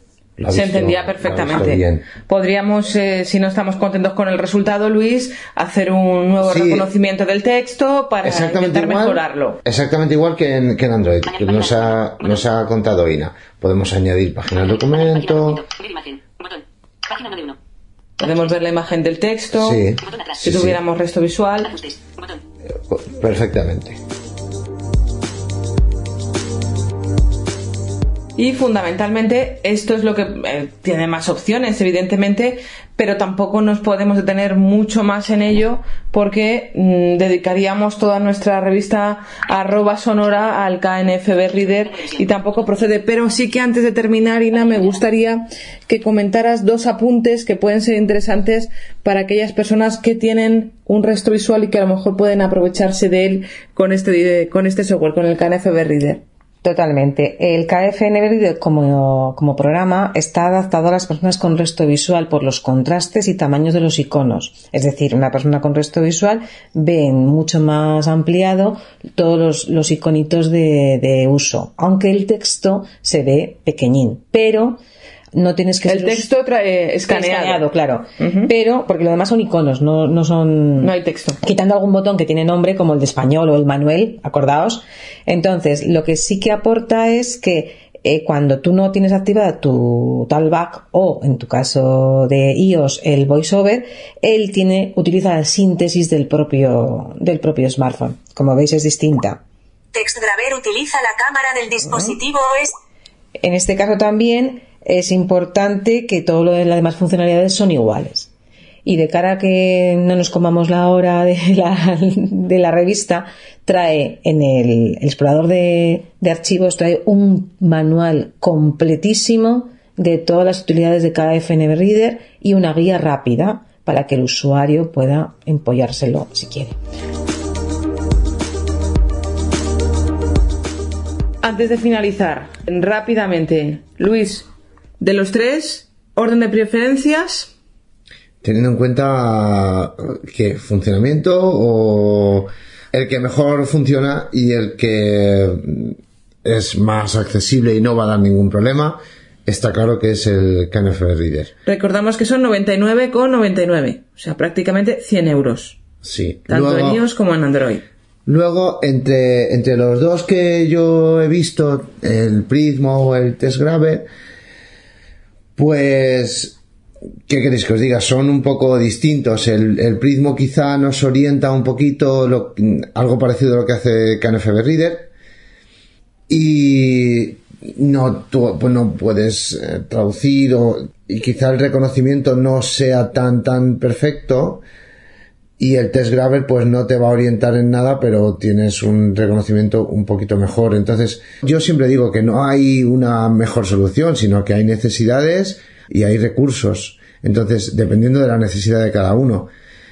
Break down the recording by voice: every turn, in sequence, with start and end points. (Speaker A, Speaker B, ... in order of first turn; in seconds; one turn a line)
Speaker A: 0.4-2.0
Speaker B: 0.5-9.6
Speaker A: 6.4-6.9
Speaker A: 8.2-15.6
Speaker C: 11.2-12.4
Speaker C: 14.5-17.6
Speaker B: 18.2-19.8
Speaker C: 18.2-18.5
Speaker A: 19.5-20.8
Speaker C: 20.0-20.6
Speaker B: 20.4-21.7
Speaker C: 21.6-22.4
Speaker A: 22.7-24.0
Speaker B: 28.4-56.2
Speaker C: 41.9-42.8
Speaker C: 44.7-44.9
Speaker D: 56.6-74.8
Speaker D: 75.3-76.3
Speaker B: 75.8-77.7
Speaker D: 77.1-99.4
Speaker B: 78.2-78.5
Speaker B: 80.8-81.4
Speaker E: 99.9-102.8
Speaker D: 103.4-108.3
Speaker D: 108.8-126.8
Speaker B: 131.4-134.5
Speaker B: 135.0-137.5
Speaker A: 138.4-151.5
Speaker B: 151.7-155.8
Speaker A: 156.0-157.0
Speaker B: 156.5-157.8
Speaker A: 158.3-164.1
Speaker A: 165.6-166.6
Speaker A: 167.3-175.1
Speaker A: 176.3-184.6
Speaker A: 185.6-199.5